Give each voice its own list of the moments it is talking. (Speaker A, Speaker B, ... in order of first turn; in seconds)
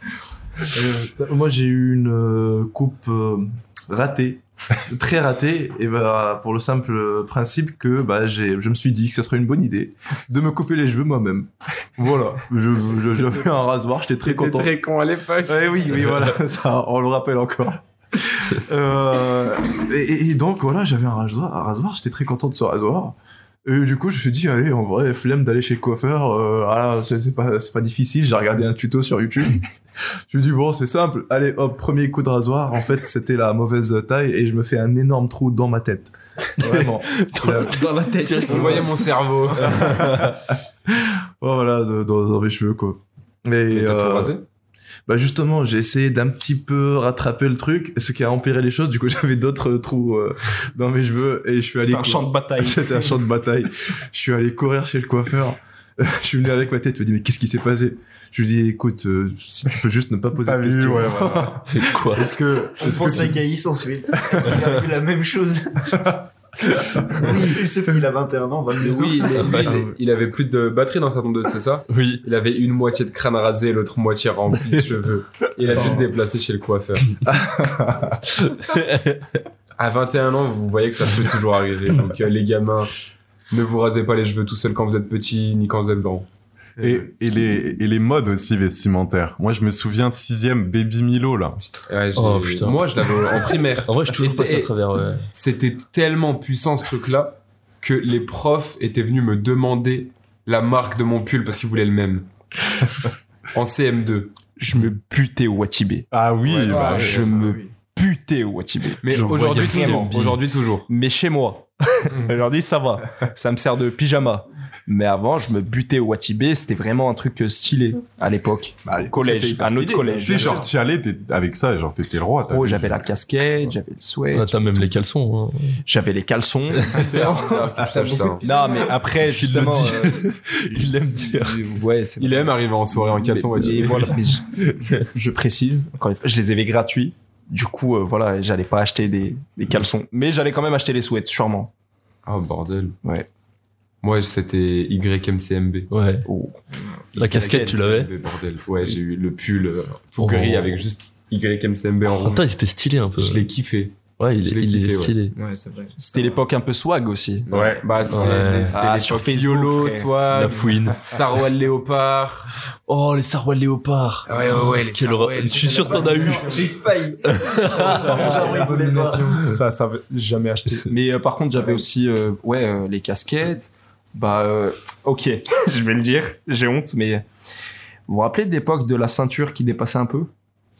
Speaker A: 0.7-14.8, 15.4-29.6, 30.3-39.0, 39.6-40.4, 40.9-44.4, 45.1-62.2, 62.8-63.4, 69.6-69.9, 77.3-78.1, 106.7-107.6, 118.8-120.7, 168.2-168.8
Speaker B: 14.2-15.8, 38.5-40.0, 43.7-44.4, 68.8-77.2, 79.8-82.9, 83.5-86.3, 91.9-94.7, 95.3-102.3, 103.5-104.3, 106.5-107.4, 109.0-110.9, 126.9-128.5, 132.2-134.2, 142.3-143.0, 144.0-145.9, 147.2-152.4, 153.2-155.2, 157.5-162.6, 164.3-165.6
Speaker C: 36.6-38.9, 39.8-40.4, 61.7-62.4, 69.3-69.8, 71.9-72.2, 78.3-79.4, 92.2-93.1, 93.8-95.2, 109.1-110.4, 124.3-125.8, 126.8-127.0, 129.2-131.6, 134.6-135.1, 145.9-146.3, 147.2-148.1, 150.2-150.8, 152.1-153.5, 154.2-155.3, 158.1-158.8, 160.3-161.0, 162.9-166.6, 167.2-168.4
Speaker D: 51.8-53.0, 104.6-106.1, 106.7-110.3, 110.9-120.7, 122.5-124.8, 125.9-127.7, 128.4-132.6, 133.2-141.7, 146.2-146.7, 147.3-147.7, 156.0-157.5, 158.7-160.2, 168.1-168.9, 169.4-177.3, 178.1-180.3
Speaker E: 60.5-61.6, 86.8-91.6, 106.1-107.2, 120.2-123.0, 157.5-157.8
Speaker F: 62.1-66.2, 66.9-69.6, 166.2-169.4
Speaker G: 106.7-107.0, 127.2-128.9, 155.3-156.4, 157.5-158.1, 164.3-166.8, 167.7-169.6